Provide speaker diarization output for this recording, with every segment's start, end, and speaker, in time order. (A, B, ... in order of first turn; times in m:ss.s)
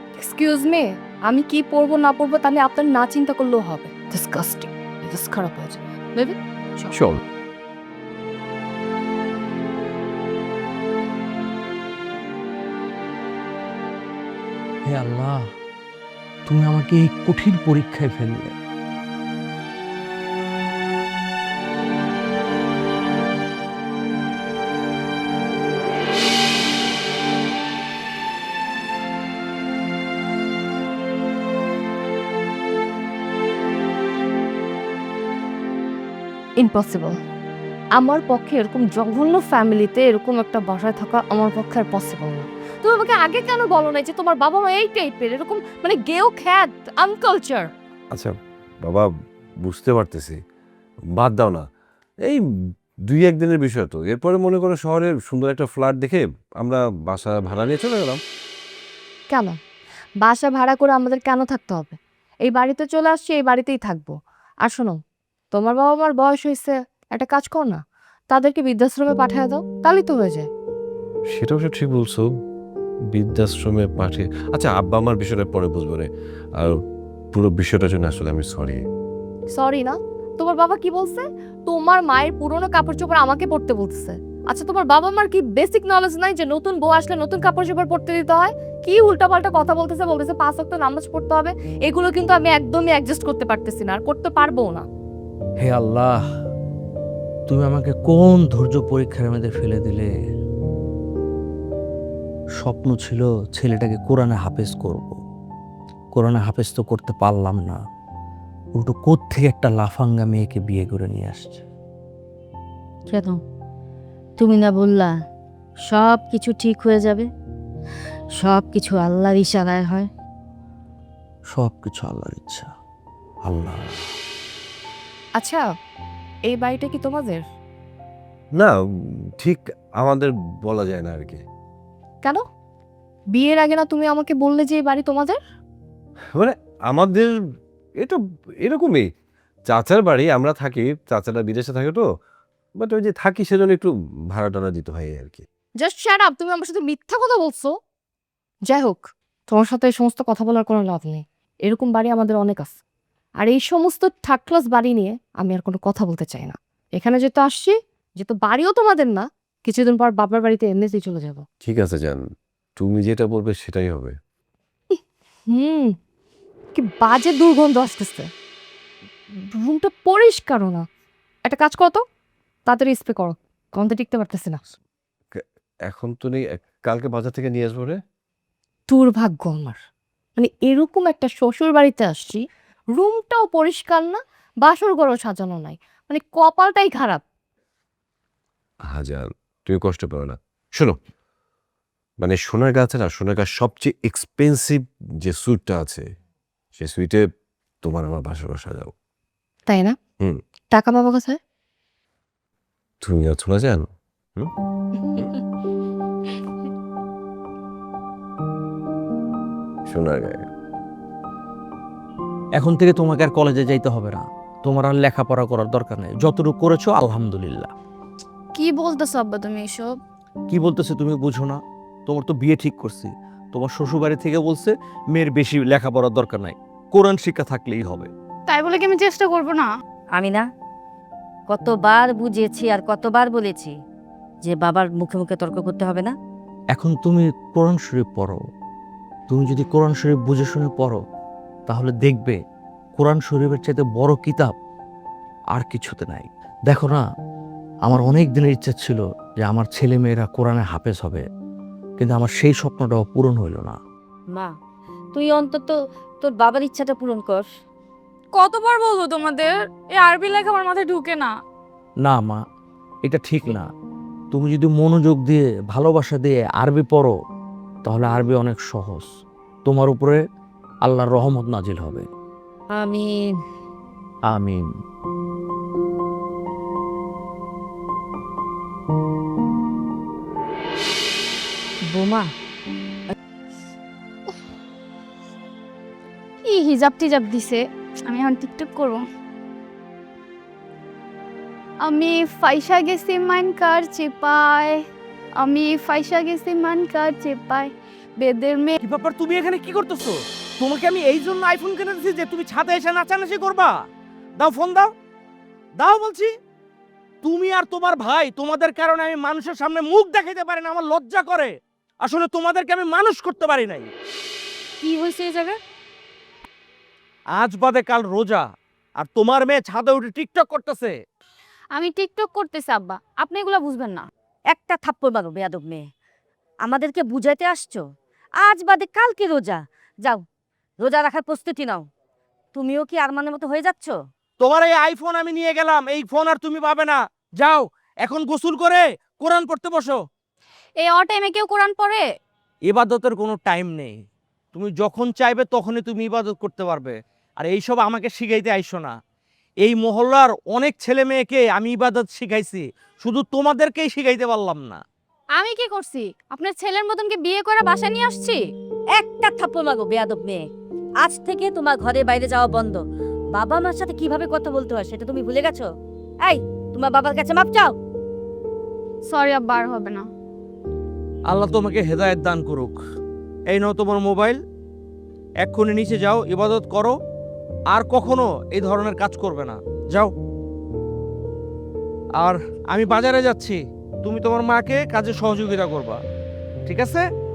0:00.2-0:07.0 A
0:06.9-0:07.2 B
0:14.8-0:15.4 C
0:16.5-0:18.5 C
0:36.6-0:37.2 A
0:38.0-0:47.7 A
0:48.1-0:49.1 B
0:49.6-0:50.4 B
0:51.2-0:51.7 B
0:53.1-0:58.2 B
0:59.3-0:59.6 A
1:00.2-1:04.1 A
1:04.6-1:05.0 A
1:05.5-1:10.5 A
1:11.3-1:12.3 B
1:13.1-1:16.8 B
1:17.3-1:18.8 B
1:19.5-1:34.9 A
1:35.6-1:36.2 C
1:37.5-1:40.1 C
1:42.6-1:45.2 C
1:46.1-1:47.8 C
1:48.8-1:51.6 C
1:53.1-1:53.4 D
1:54.4-1:55.1 D
1:55.9-1:57.3 D
1:58.4-2:00.1 D
2:01.5-2:02.7 C
2:03.4-2:04.1 C
2:05.4-2:05.6 A
2:06.5-2:07.4 A
2:09.4-2:11.4 B
2:13.4-2:15.4 A
2:16.4-2:17.3 B
2:18.0-2:19.1 B
2:19.7-2:22.0 B
2:22.8-2:25.4 B
2:25.8-2:27.8 A
2:28.7-2:32.8 A
2:33.4-2:41.4 A
2:41.6-2:44.1 B
2:45.5-2:45.9 A
2:46.8-2:48.3 A
2:49.5-2:50.8 A
2:51.5-2:52.0 A
2:52.7-2:54.6 A
2:55.3-2:58.0 B
2:58.9-2:59.8 A
3:00.4-3:07.2 A
3:08.9-3:11.0 B
3:12.2-3:16.1 B
3:16.8-3:17.2 B
3:17.8-3:18.9 B
3:19.7-3:20.0 A
3:20.7-3:21.4 A
3:23.0-3:24.5 B
3:29.9-3:30.5 B
3:32.6-3:37.7 C
3:38.5-3:40.0 E
3:40.5-3:48.1 C
3:48.5-3:49.7 E
3:50.1-3:50.4 D
3:51.5-3:53.8 D
3:54.4-3:56.2 D
3:56.7-3:58.4 C
3:59.3-4:01.0 C
4:01.7-4:02.4 C
4:03.0-4:04.5 C
4:05.5-4:07.0 C
4:07.8-4:11.2 C
4:12.0-4:13.8 C
4:14.3-4:14.6 D
4:15.1-4:17.5 D
4:18.3-4:21.4 E
4:22.0-4:22.4 C
4:23.0-4:23.7 C
4:24.3-4:27.2 C
4:27.8-4:30.2 C
4:30.8-4:32.1 C
4:32.7-4:33.4 D
4:34.3-4:34.6 C
4:41.9-4:42.3 D
4:46.4-4:49.0 E
4:51.8-4:54.8 E
4:55.4-4:58.8 E
4:58.8-5:03.8 F
5:04.4-5:04.9 F
5:05.8-5:06.3 F
5:07.2-5:13.9 F
5:14.8-5:15.6 E
5:17.4-5:18.4 F
5:19.0-5:21.0 F
5:21.7-5:24.1 E
5:24.5-5:25.8 D
5:26.6-5:27.8 D
5:28.4-5:30.2 D
5:30.8-5:31.9 D
5:32.5-5:34.0 D
5:34.4-5:40.0 F
5:40.8-5:42.0 E
5:42.7-5:44.0 F
5:44.5-5:49.0 F
5:49.6-5:54.8 F
5:55.4-5:58.4 E
5:59.0-6:00.5 D
6:01.0-6:02.8 D
6:03.3-6:05.7 D
6:06.2-6:07.8 D
6:09.0-6:10.1 E
6:11.3-6:12.8 F
6:13.5-6:14.4 F
6:15.4-6:16.9 F
6:17.7-6:20.1 F
6:22.2-6:26.0 F
6:26.7-6:27.0 F